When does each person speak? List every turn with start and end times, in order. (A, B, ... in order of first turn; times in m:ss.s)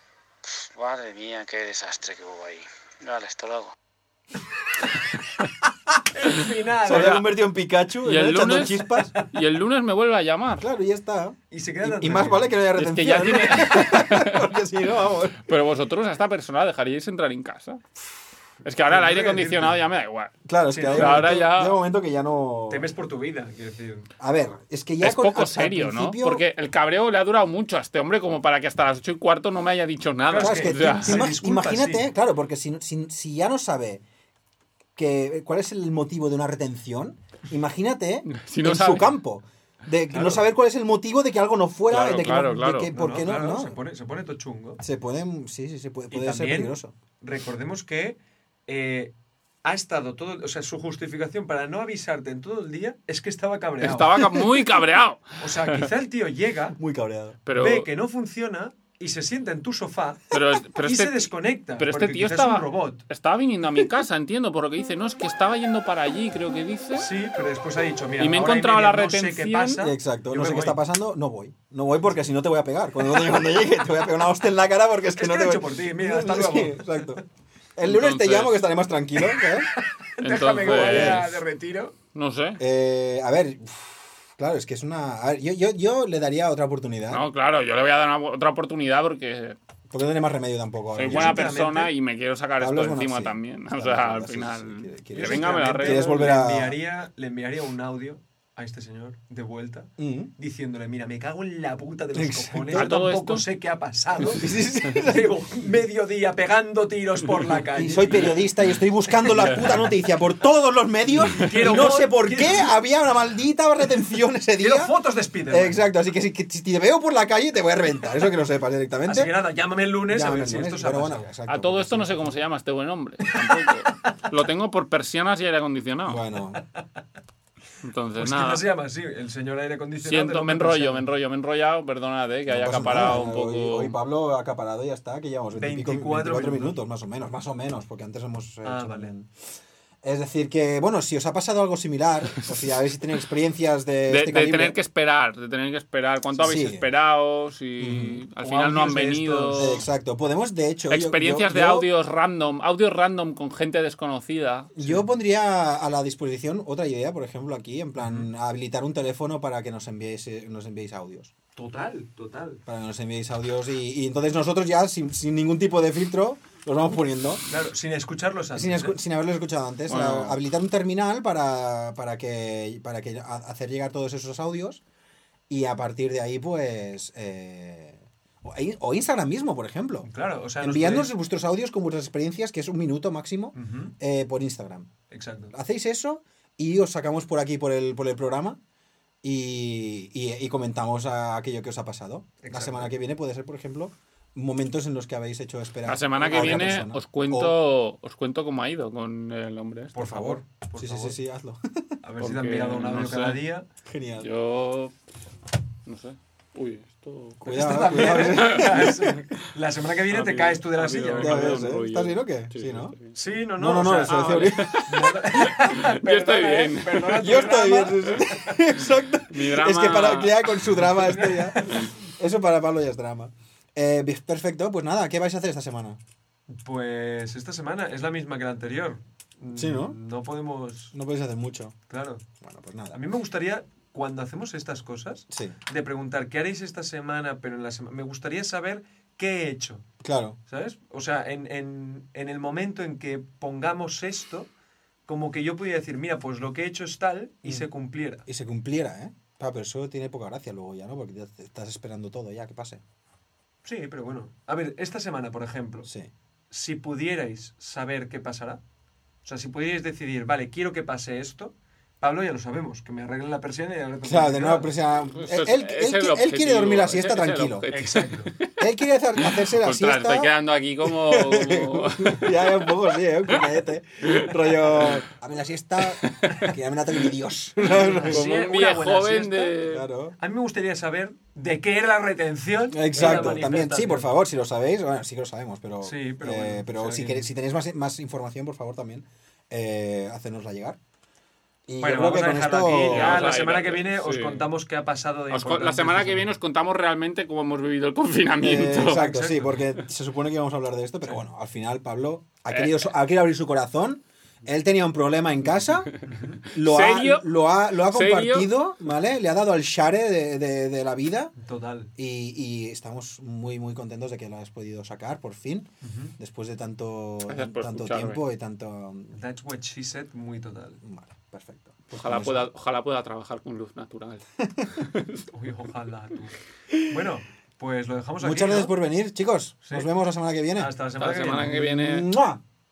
0:00.4-0:03.7 A
0:06.1-0:07.3 B
0:06.8-0:09.1 C
0:06.8-0:07.2 D
0:08.0-0:10.6 D
0:08.9-0:09.2 B
0:10.6-0:15.4 C
0:11.5-0:12.5 B
0:12.8-0:14.5 D
0:15.4-0:17.8 D
0:18.6-0:20.3 D
0:18.8-0:19.8 B
0:20.4-0:22.9 C
0:20.7-0:21.3 B
0:20.9-0:21.8 D
0:22.7-0:24.1 B
0:24.2-0:26.4 C
0:25.0-0:31.3 D
0:30.3-0:32.1 B
0:30.4-0:34.0 C
0:35.0-0:43.8 C
0:38.3-0:39.1 D
0:40.1-0:40.4 B
0:41.9-0:42.9 D
0:42.9-0:44.8 B
0:44.8-0:46.9 C
0:46.1-0:49.1 B
0:49.6-0:54.2 B
0:53.8-0:55.8 D
0:55.4-0:56.8 B
0:56.8-0:57.4 C
0:57.4-0:57.9 D
0:57.5-1:03.0 B
1:00.3-1:07.1 D
1:07.0-1:10.8 B
1:08.2-1:09.8 D
1:09.8-1:17.2 C
1:15.1-1:17.2 B
1:17.8-1:19.7 C
1:17.8-1:18.7 D
1:19.3-1:21.9 B
1:20.2-1:21.3 D
1:20.6-1:21.4 C
1:22.1-1:22.6 D
1:22.6-1:27.2 C
1:27.1-1:29.6 D
1:29.9-1:31.6 C
1:30.9-1:36.4 D
1:31.0-1:31.9 B
1:32.6-1:36.8 C
1:35.1-1:48.4 B
1:40.0-1:40.3 C
1:42.1-1:43.0 C
1:42.7-1:43.4 D
1:44.2-1:45.4 C
1:47.7-1:54.9 C
1:51.2-1:52.7 B
1:54.6-1:55.8 B
1:55.5-1:59.3 C
1:59.0-2:01.2 B
2:00.1-2:02.4 C
2:01.5-2:06.2 D
2:03.2-2:04.1 B
2:06.1-2:06.6 C
2:06.5-2:06.8 B
2:07.8-2:08.6 D
2:08.2-2:11.0 B
2:10.0-2:14.0 D
2:12.5-2:19.3 C
2:15.5-2:16.8 B
2:18.6-2:19.1 B
2:20.0-2:24.8 C
2:24.1-2:29.8 D
2:26.4-2:26.9 C
2:27.8-2:28.2 C
2:28.4-2:29.8 B
2:29.5-2:31.9 C
2:30.9-2:34.7 D
2:34.8-2:41.3 C
2:41.6-2:42.6 B
2:42.6-2:47.4 C
2:47.5-2:49.0 B
2:48.5-2:54.8 C
2:49.9-2:50.4 D
2:55.5-3:00.1 C
3:00.0-3:01.1 B
3:00.6-3:04.9 C
3:03.5-3:03.9 B
3:05.1-3:05.5 B
3:05.5-3:08.6 C
3:09.2-3:17.6 C
3:12.4-3:12.9 B
3:15.8-3:20.0 D
3:16.2-3:16.8 B
3:19.9-3:21.2 B
3:20.0-3:21.8 C
3:22.0-3:23.6 B
3:22.2-3:23.4 D
3:23.8-3:24.3 C
3:24.2-3:24.9 D
3:25.8-3:28.9 D
3:27.4-3:29.2 C
3:27.4-3:31.7 B
3:30.1-3:33.1 D
3:31.2-3:33.0 C
3:33.1-3:38.5 B
3:33.6-3:34.8 C
3:34.0-3:37.4 D
3:37.1-3:46.0 C
3:39.3-3:40.6 D
3:40.9-3:41.9 B
3:46.5-3:50.9 B
3:49.5-3:50.0 C
3:50.9-3:51.7 C
3:51.9-3:52.2 B
3:52.4-3:53.0 C
3:52.9-3:59.9 B
3:55.3-3:55.6 C
4:00.0-4:00.4 C
4:00.5-4:04.5 B
4:05.1-4:08.2 B
4:08.2-4:12.8 C
4:13.6-4:15.9 B
4:15.8-4:16.1 C
4:16.5-4:18.6 B
4:19.2-4:24.7 B
4:24.0-4:27.7 C
4:25.1-4:28.6 D
4:27.7-4:28.3 B
4:28.6-4:30.3 C
4:29.2-4:35.0 D
4:30.8-4:38.2 C
4:36.0-4:36.5 D
4:37.6-4:39.6 B
4:38.1-4:39.9 D
4:39.7-4:40.2 C
4:40.2-4:44.1 B
4:42.7-4:50.8 C
4:43.0-4:43.4 D
4:45.8-4:47.3 B
4:51.7-4:53.3 C
4:51.8-4:56.3 B
4:52.8-4:54.5 D
4:55.3-4:59.1 D
4:58.4-5:05.9 C
4:58.8-4:59.6 B
5:02.5-5:02.9 D
5:06.1-5:06.4 B
5:06.4-5:11.3 C
5:06.6-5:07.3 D
5:07.9-5:08.5 D
5:11.4-5:11.9 B
5:12.0-5:19.2 C
5:15.8-5:16.1 B
5:17.3-5:18.2 D
5:19.1-5:20.8 B
5:20.8-5:22.5 C
5:21.9-5:25.2 D
5:24.4-5:24.8 C
5:25.3-5:28.8 B
5:28.2-5:30.7 C
5:29.6-5:29.9 B
5:30.5-5:31.5 B
5:31.0-5:32.1 D
5:31.3-5:32.4 C